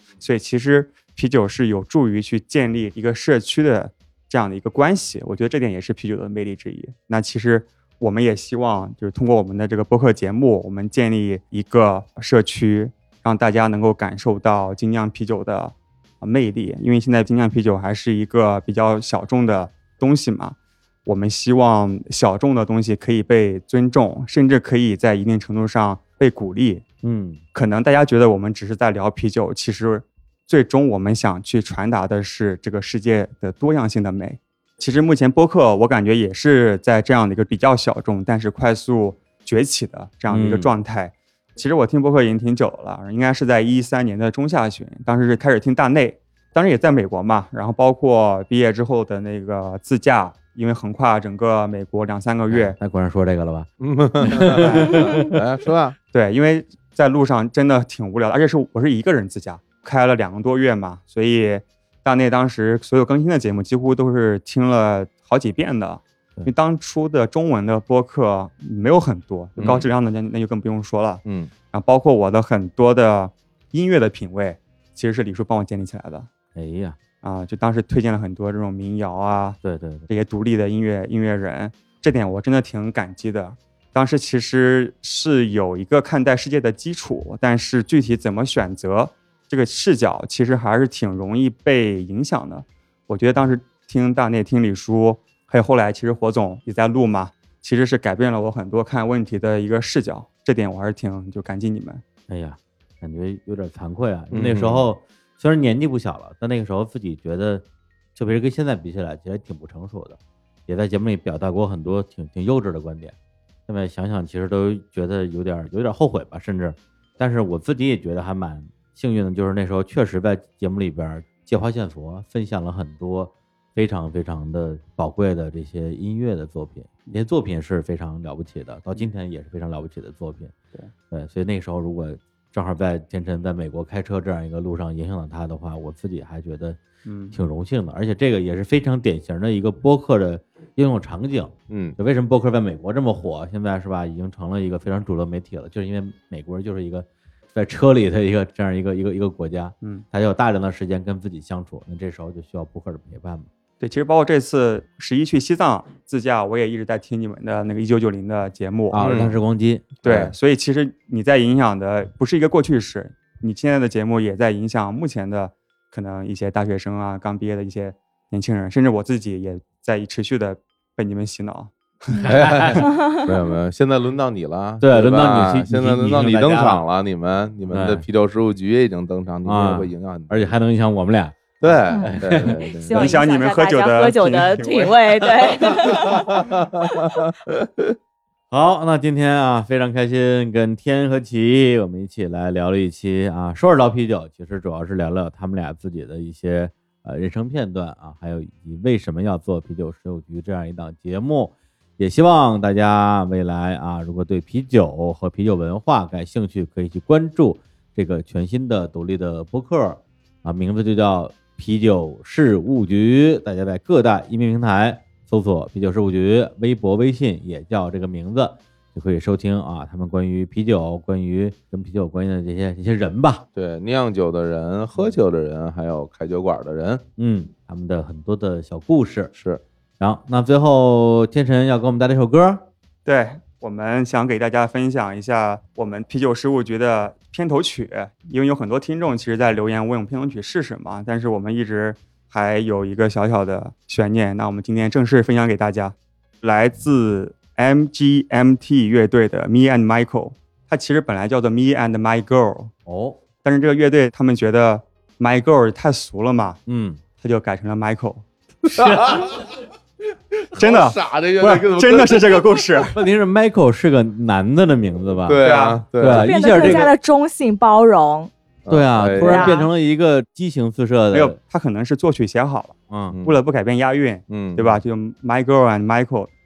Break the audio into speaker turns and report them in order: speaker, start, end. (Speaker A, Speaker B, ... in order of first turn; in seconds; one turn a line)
Speaker A: 0.2-26.8
Speaker B: 27.0-27.4
Speaker A: 27.5-52.8
Speaker B: 40.3-40.7
Speaker B: 52.5-53.7
Speaker C: 53.8-56.0
Speaker B: 54.2-55.3
Speaker A: 54.5-55.3
Speaker A: 56.1-76.3
Speaker C: 69.6-69.9
Speaker C: 71.2-71.5
Speaker B: 76.6-77.0
Speaker A: 77.2-102.0
Speaker B: 79.6-80.1
Speaker B: 102.3-113.2
Speaker C: 104.3-104.9
Speaker B: 113.7-130.5
Speaker B: 131.1-136.8
Speaker A: 137.1-137.4
Speaker B: 137.3-153.5
Speaker C: 141.7-142.0
Speaker A: 153.8-159.1
Speaker B: 158.9-159.9
Speaker C: 159.0-159.4
Speaker A: 160.0-172.8
Speaker C: 160.0-160.3
Speaker C: 172.2-180.5
Speaker B: 172.3-172.8
Speaker B: 174.8-176.8
Speaker B: 177.7-178.1
Speaker B: 179.4-182.6
Speaker C: 181.6-183.1
Speaker D: 181.9-187.2
Speaker A: 182.9-185.8
Speaker C: 185.8-187.9
Speaker B: 188.5-223.4
Speaker C: 223.5-227.0
Speaker B: 227.2-229.3
Speaker C: 229.3-229.6
Speaker B: 230.0-232.7
Speaker A: 233.1-252.7
Speaker B: 252.9-253.2
Speaker A: 253.4-256.6
Speaker B: 256.7-257.0
Speaker A: 257.2-258.2
Speaker B: 258.7-259.3
Speaker C: 258.7-259.6
Speaker C: 260.3-262.8
Speaker A: 260.6-263.0
Speaker B: 262.9-265.4
Speaker C: 265.2-266.9
Speaker A: 265.4-265.8
Speaker B: 266.0-266.9
Speaker D: 266.1-268.3
Speaker C: 268.6-269.6
Speaker B: 268.7-271.4
Speaker D: 269.2-269.7
Speaker A: 271.1-276.3
Speaker B: 272.9-273.2
Speaker C: 273.1-273.4
Speaker C: 274.3-274.8